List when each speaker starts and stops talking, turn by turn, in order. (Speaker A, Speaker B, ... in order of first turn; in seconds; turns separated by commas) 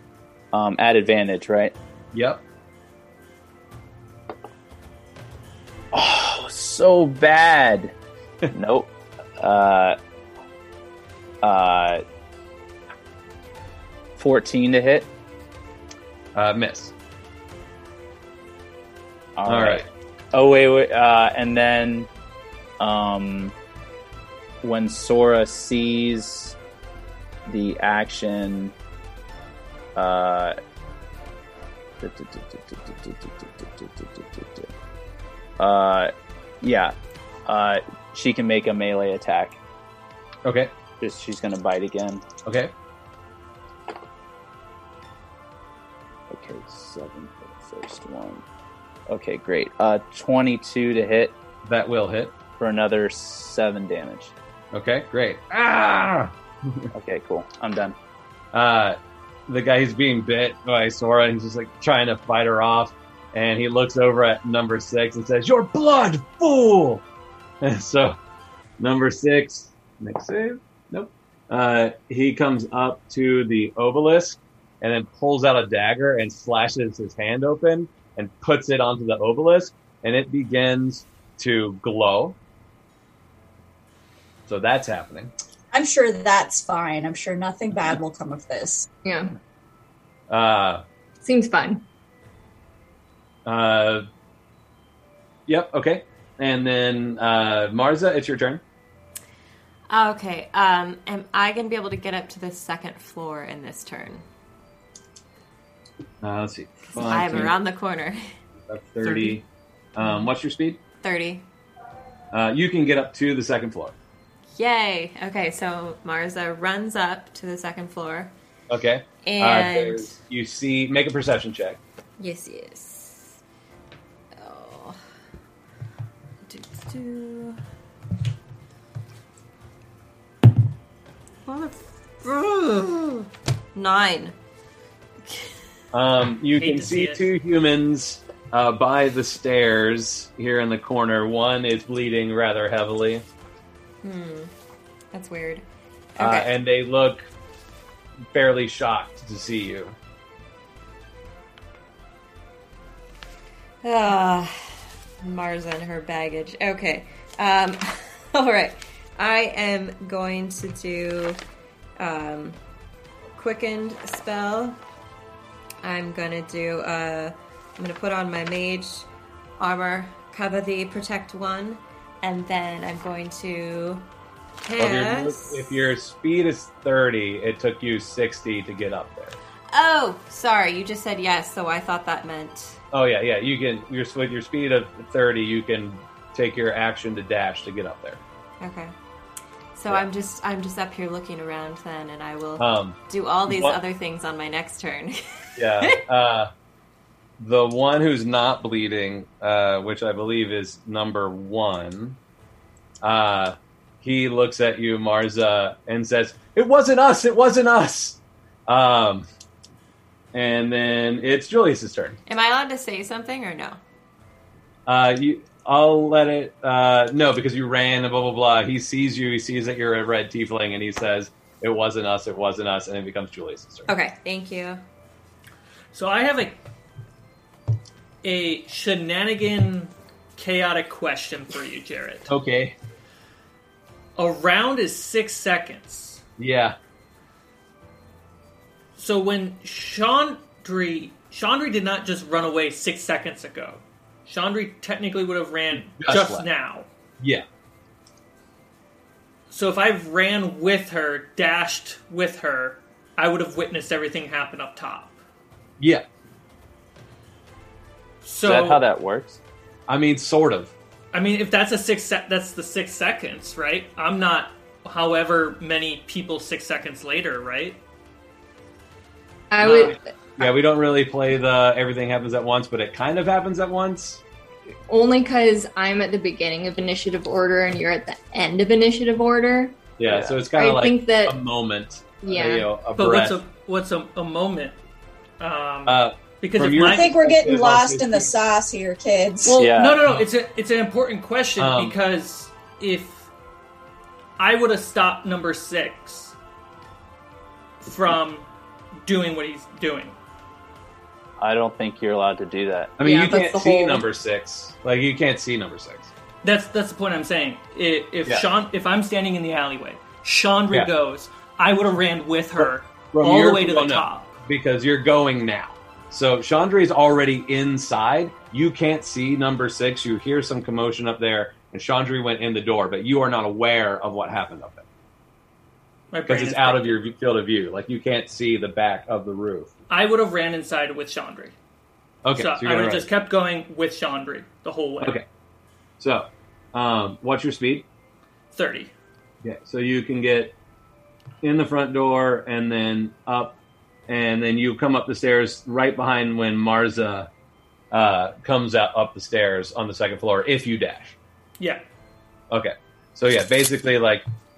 Speaker A: 0.5-1.7, Speaker B: 2.1-2.4, Speaker A: 5.9-7.9, Speaker A: 8.5-10.0, Speaker A: 11.4-12.0, Speaker A: 14.2-15.1, Speaker B: 16.4-16.9, Speaker A: 19.4-22.1, Speaker B: 19.4-19.9, Speaker A: 22.8-23.5, Speaker A: 24.6-26.6, Speaker A: 27.5-28.7, Speaker A: 29.9-30.6, Speaker A: 32.0-34.7, Speaker A: 35.6-36.9, Speaker A: 37.5-39.6, Speaker B: 40.4-40.7, Speaker A: 41.0-42.2, Speaker B: 42.5-42.7, Speaker A: 46.3-48.4, Speaker A: 49.1-51.4, Speaker B: 51.6-52.3, Speaker A: 52.6-54.3, Speaker B: 54.7-56.9, Speaker A: 56.9-57.9, Speaker B: 58.5-67.0, Speaker B: 67.6-68.2, Speaker B: 68.8-82.3, Speaker B: 84.5-85.3, Speaker C: 85.7-88.9, Speaker D: 89.0-89.3, Speaker B: 90.3-90.8, Speaker D: 91.2-91.8, Speaker B: 93.5-94.1, Speaker B: 95.5-98.6, Speaker E: 99.9-104.2, Speaker B: 106.2-107.5, Speaker E: 106.9-108.2, Speaker B: 108.7-110.8, Speaker E: 109.0-109.3, Speaker E: 111.0-111.4, Speaker B: 112.3-114.0, Speaker E: 114.5-118.3, Speaker B: 118.7-121.8, Speaker E: 119.2-120.2, Speaker E: 122.2-123.4, Speaker E: 124.4-125.0, Speaker E: 126.5-127.6, Speaker E: 131.4-134.3, Speaker B: 135.9-143.2, Speaker F: 136.6-137.3, Speaker E: 144.0-144.5, Speaker E: 145.1-145.6, Speaker E: 146.1-146.5, Speaker B: 146.2-147.2, Speaker B: 148.3-149.9, Speaker E: 153.8-161.4, Speaker E: 162.0-162.6, Speaker E: 163.3-164.8, Speaker E: 165.8-169.1, Speaker E: 169.6-174.1, Speaker E: 174.6-175.8, Speaker B: 174.8-179.4, Speaker E: 179.7-182.8, Speaker B: 182.9-188.2, Speaker E: 188.6-188.9, Speaker E: 189.7-195.2, Speaker B: 192.6-193.8, Speaker B: 195.6-196.5, Speaker B: 197.4-202.2, Speaker B: 203.0-209.3, Speaker B: 210.3-212.2, Speaker E: 212.3-213.8, Speaker B: 214.8-223.9, Speaker E: 223.9-224.8, Speaker F: 225.9-226.6, Speaker F: 228.2-232.3, Speaker B: 232.3-232.8, Speaker F: 234.2-236.2, Speaker B: 236.4-236.8, Speaker F: 238.9-246.9, Speaker B: 245.7-246.5, Speaker B: 247.2-247.4, Speaker F: 249.5-255.2, Speaker B: 255.8-256.1, Speaker F: 258.2-258.8, Speaker A: 258.4-259.4, Speaker B: 259.9-260.7, Speaker F: 261.1-267.8, Speaker D: 269.5-270.0, Speaker B: 269.6-274.2, Speaker F: 269.6-269.9, Speaker D: 274.9-279.9, Speaker B: 280.0-283.4, Speaker A: 280.1-280.3, Speaker D: 280.5-281.4, Speaker D: 282.2-282.7, Speaker F: 282.9-284.8, Speaker F: 285.4-287.1, Speaker B: 285.9-288.6, Speaker C: 286.8-289.6, Speaker F: 289.4-293.3, Speaker A: 289.5-290.1, Speaker B: 291.6-292.0, Speaker F: 294.4-296.4, Speaker F: 297.8-298.4, Speaker F: 299.0-300.1, Speaker A: 301.4-302.9, Speaker B: 303.0-306.1, Speaker D: 303.0-304.0, Speaker F: 306.4-314.4, Speaker B: 312.6-324.8, Speaker F: 326.1-326.9, Speaker B: 326.3-329.7, Speaker F: 329.9-331.6, Speaker B: 332.2-333.1, Speaker F: 332.4-335.2, Speaker B: 335.0-335.3, Speaker B: 336.0-337.9, Speaker F: 338.5-338.9, Speaker B: 339.4-340.6, Speaker B: 341.4-347.3, Speaker B: 347.9-351.1, Speaker F: 351.6-351.8, Speaker B: 352.5-354.2